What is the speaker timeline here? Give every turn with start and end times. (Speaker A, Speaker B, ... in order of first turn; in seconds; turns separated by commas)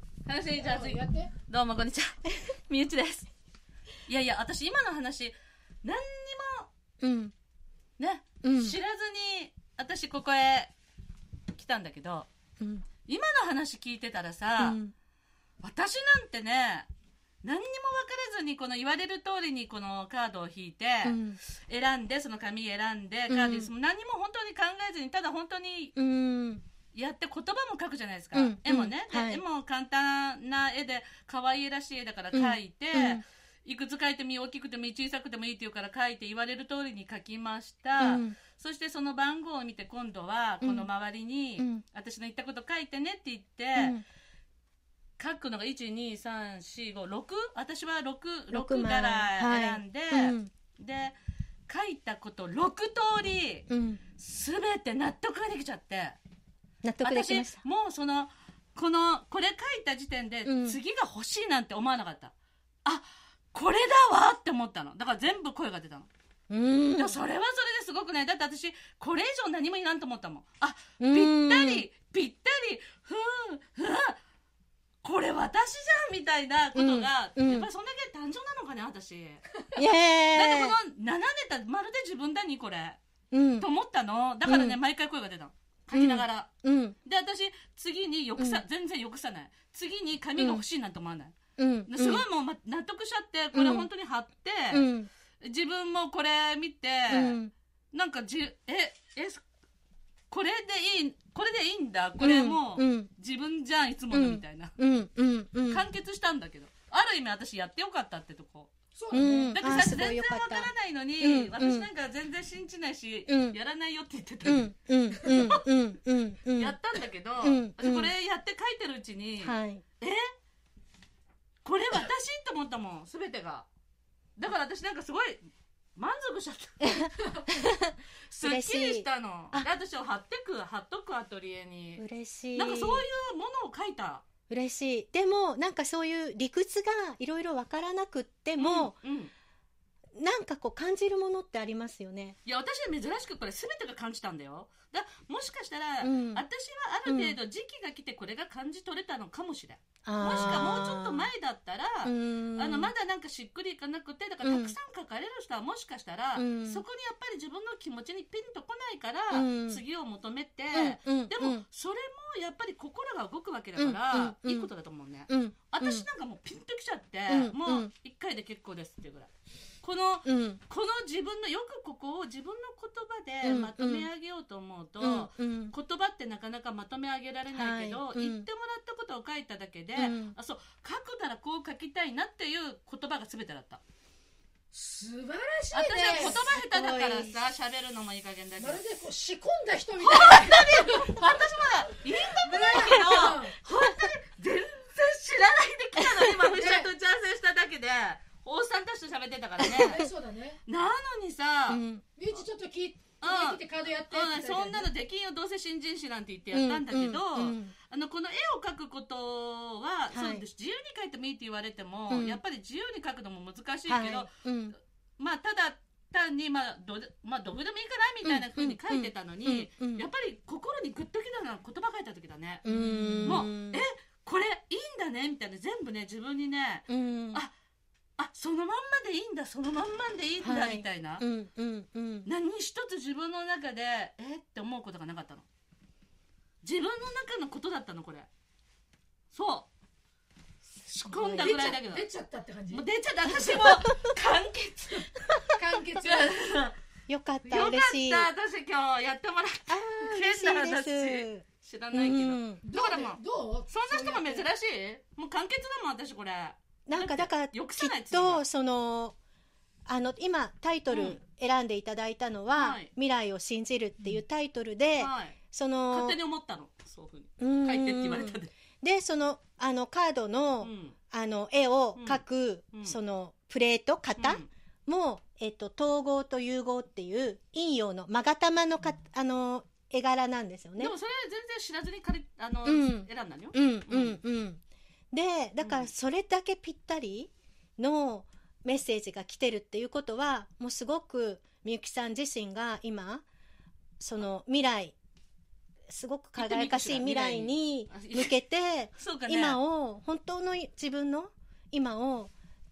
Speaker A: 0.3-3.3, Speaker B: 0.6-1.3, Speaker A: 4.1-6.7, Speaker C: 7.0-7.3, Speaker A: 8.0-10.7, Speaker C: 8.4-8.8, Speaker A: 11.5-12.3, Speaker C: 12.6-12.9, Speaker A: 13.1-14.8, Speaker C: 14.6-14.9, Speaker A: 15.6-16.9, Speaker A: 17.4-25.9, Speaker C: 21.0-21.4, Speaker C: 23.3-23.7, Speaker C: 26.0-26.6, Speaker A: 26.9-44.0, Speaker C: 28.3-29.4, Speaker C: 32.3-33.2, Speaker C: 38.0-38.4, Speaker C: 40.6-40.9, Speaker C: 41.6-41.8, Speaker C: 43.8-44.0, Speaker A: 45.2-51.1, Speaker C: 48.5-50.5, Speaker A: 51.7-53.7, Speaker C: 53.7-54.0, Speaker A: 54.2-56.2, Speaker C: 56.8-57.6, Speaker A: 57.0-62.3, Speaker C: 60.5-60.8, Speaker A: 62.9-66.1, Speaker C: 66.5-67.2, Speaker A: 67.0-74.2, Speaker C: 71.0-71.8, Speaker A: 75.0-79.5, Speaker C: 76.8-77.7, Speaker C: 79.8-80.8, Speaker A: 80.3-83.0, Speaker C: 83.3-83.7, Speaker A: 83.6-86.5, Speaker C: 84.5-84.8, Speaker C: 85.9-87.0, Speaker A: 87.0-91.4, Speaker C: 90.4-90.6, Speaker C: 91.6-92.2, Speaker A: 91.9-94.9, Speaker C: 93.5-93.9, Speaker C: 94.7-95.1, Speaker A: 95.4-97.4, Speaker C: 97.1-97.5, Speaker A: 97.9-99.4, Speaker A: 100.3-104.8, Speaker C: 102.2-103.1, Speaker C: 104.1-105.8, Speaker A: 105.7-108.7, Speaker B: 109.0-109.6, Speaker C: 109.1-111.9, Speaker A: 109.6-115.6, Speaker C: 113.3-113.6, Speaker C: 114.5-116.8, Speaker A: 116.5-120.2, Speaker C: 117.4-118.1, Speaker C: 119.4-119.8, Speaker A: 121.6-123.7, Speaker A: 124.4-125.4, Speaker A: 126.0-127.5, Speaker C: 126.8-129.7, Speaker A: 128.3-134.2, Speaker C: 132.0-133.1, Speaker C: 134.5-139.0, Speaker A: 138.6-139.3, Speaker C: 140.2-142.4, Speaker A: 142.5-169.3, Speaker C: 146.0-146.4, Speaker C: 147.1-147.4, Speaker C: 150.0-151.3, Speaker C: 152.1-152.9, Speaker C: 154.4-154.8, Speaker C: 156.4-156.8, Speaker C: 159.3-159.8, Speaker C: 160.7-161.7, Speaker C: 163.8-164.7, Speaker C: 165.3-166.1, Speaker C: 167.3-167.9, Speaker A: 169.8-183.8, Speaker C: 170.3-170.6, Speaker C: 173.4-174.1, Speaker C: 175.0-175.7, Speaker C: 177.5-178.5, Speaker C: 180.0-180.3, Speaker B: 184.7-186.4, Speaker A: 185.7-188.8, Speaker C: 186.1-187.4, Speaker B: 188.6-191.2, Speaker A: 190.0-200.0, Speaker B: 192.3-193.6, Speaker C: 193.7-194.1, Speaker C: 196.0-196.5, Speaker B: 196.5-196.9, Speaker C: 199.6-200.1, Speaker B: 199.7-200.6, Speaker A: 200.7-201.8, Speaker C: 201.7-202.1, Speaker B: 202.2-204.9, Speaker A: 203.2-214.3, Speaker C: 206.5-207.7, Speaker C: 210.1-210.5, Speaker C: 212.1-212.4, Speaker C: 213.9-214.8, Speaker A: 215.2-222.7, Speaker C: 218.2-220.1, Speaker C: 222.7-223.8, Speaker B: 222.7-223.5, Speaker A: 223.2-227.5, Speaker C: 226.9-227.4, Speaker A: 228.2-231.2, Speaker C: 230.4-232.3, Speaker A: 232.3-235.4, Speaker A: 236.6-238.3, Speaker A: 239.3-239.7, Speaker A: 240.8-242.1, Speaker C: 241.1-241.8, Speaker B: 241.4-242.8, Speaker A: 242.7-245.3, Speaker C: 243.3-244.2, Speaker B: 245.5-246.3, Speaker A: 246.0-246.8, Speaker C: 247.1-248.3, Speaker A: 247.4-258.4, Speaker C: 249.7-252.6, Speaker B: 252.6-254.5, Speaker C: 256.9-259.2, Speaker C: 259.9-266.2, Speaker A: 260.9-261.2, Speaker A: 262.6-262.9, Speaker A: 265.0-265.4, Speaker A: 265.9-268.5, Speaker C: 267.4-281.0, Speaker A: 270.6-270.9, Speaker A: 274.2-274.5, Speaker A: 280.8-284.2, Speaker C: 282.6-284.6, Speaker C: 285.1-293.2, Speaker A: 285.6-285.9, Speaker C: 294.0-295.0, Speaker C: 295.9-302.3, Speaker A: 296.4-298.3, Speaker A: 299.0-299.6